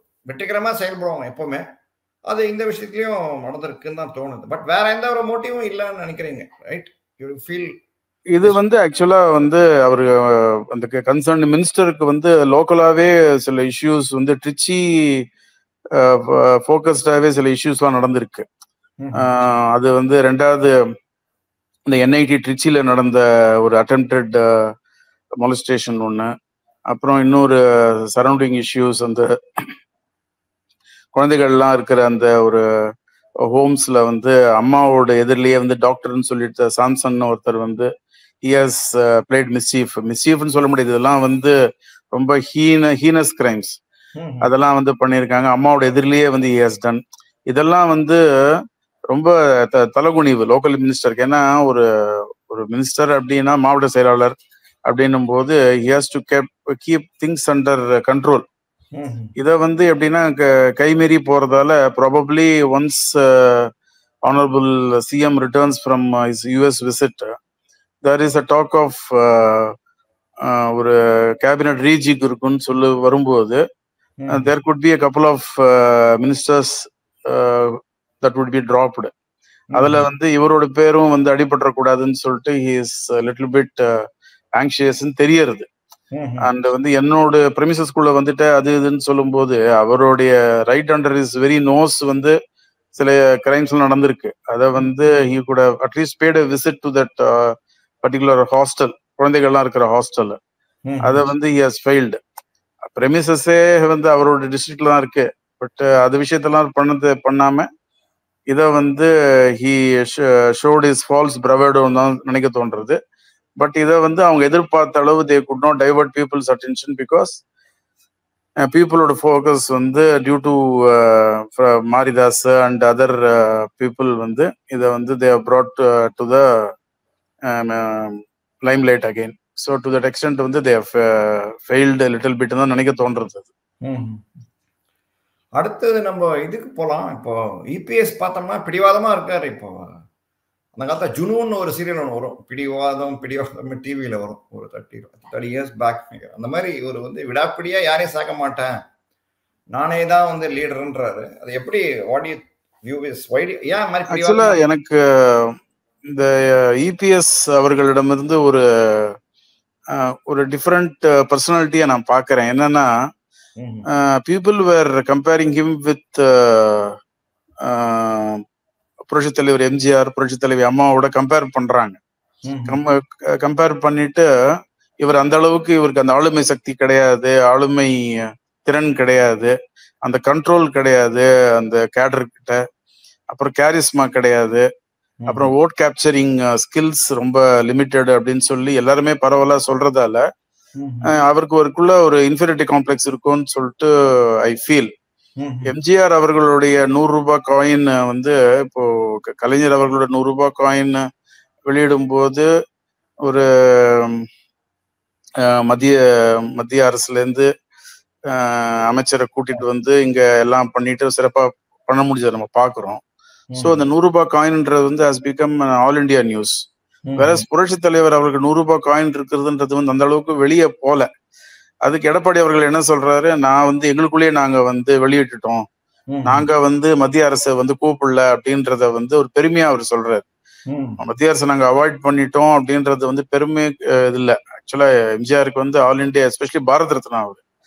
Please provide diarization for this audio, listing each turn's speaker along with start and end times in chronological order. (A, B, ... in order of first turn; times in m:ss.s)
0:00.3-0:01.6 A
0:02.3-0:07.7 A
0:08.3-0:15.2 B
0:16.0-0:18.4 B
0:19.0-0:19.2 A
0:19.2-0:20.7 B
0:21.9-0:24.7 B
0:25.4-0:26.3 B
0:26.9-0:29.6 B
0:31.1-0:32.6 B
0:33.4-0:37.9 B
0:38.4-0:41.5 B
0:42.1-0:43.8 B
0:44.2-0:44.5 A
0:44.4-0:48.2 B
0:49.1-0:54.3 B
0:54.9-0:58.4 B
0:58.9-0:59.3 A
0:59.4-1:03.7 B
1:04.2-1:07.3 B
1:08.0-1:09.7 B
1:10.4-1:13.6 B
1:14.2-1:14.5 A
1:14.3-1:19.1 B
1:19.7-1:20.1 A
1:19.7-1:23.7 B
1:24.6-1:25.7 B
1:26.1-1:26.5 A
1:26.4-1:32.3 B
1:32.9-1:40.4 B
1:40.9-1:41.2 A
1:41.0-1:42.2 B
1:42.9-1:47.7 B
1:48.5-1:53.0 B
1:53.6-1:57.4 B
1:58.6-2:06.4 B
2:07.5-2:13.5 B
2:13.8-2:14.2 A
2:15.6-2:19.8 A
2:20.8-2:28.7 A
2:29.7-2:34.6 A
2:34.1-2:35.6 B
2:36.1-2:39.2 B
2:39.9-2:42.9 B
2:43.6-2:43.8 A
2:43.9-2:47.0 B
2:47.6-2:48.4 B
2:49.1-2:52.0 B
2:52.5-2:52.8 A
2:52.7-2:54.2 B
2:55.0-2:59.5 B
3:00.0-3:02.6 B
3:03.3-3:04.6 B
3:05.2-3:05.5 A
3:05.3-3:10.2 B
3:10.8-3:11.1 A
3:11.0-3:13.9 B
3:14.4-3:14.9 B
3:15.4-3:15.7 A
3:15.6-3:21.0 B
3:21.7-3:22.5 B
3:23.2-3:24.2 B
3:25.4-3:27.5 B
3:28.3-3:33.0 B
3:33.5-3:33.8 A
3:33.6-3:36.6 B
3:37.0-3:37.4 A
3:37.2-3:41.1 B
3:41.8-3:45.6 B
3:46.1-3:46.5 A
3:46.2-3:50.2 B
3:50.7-3:51.0 A
3:51.0-3:57.4 B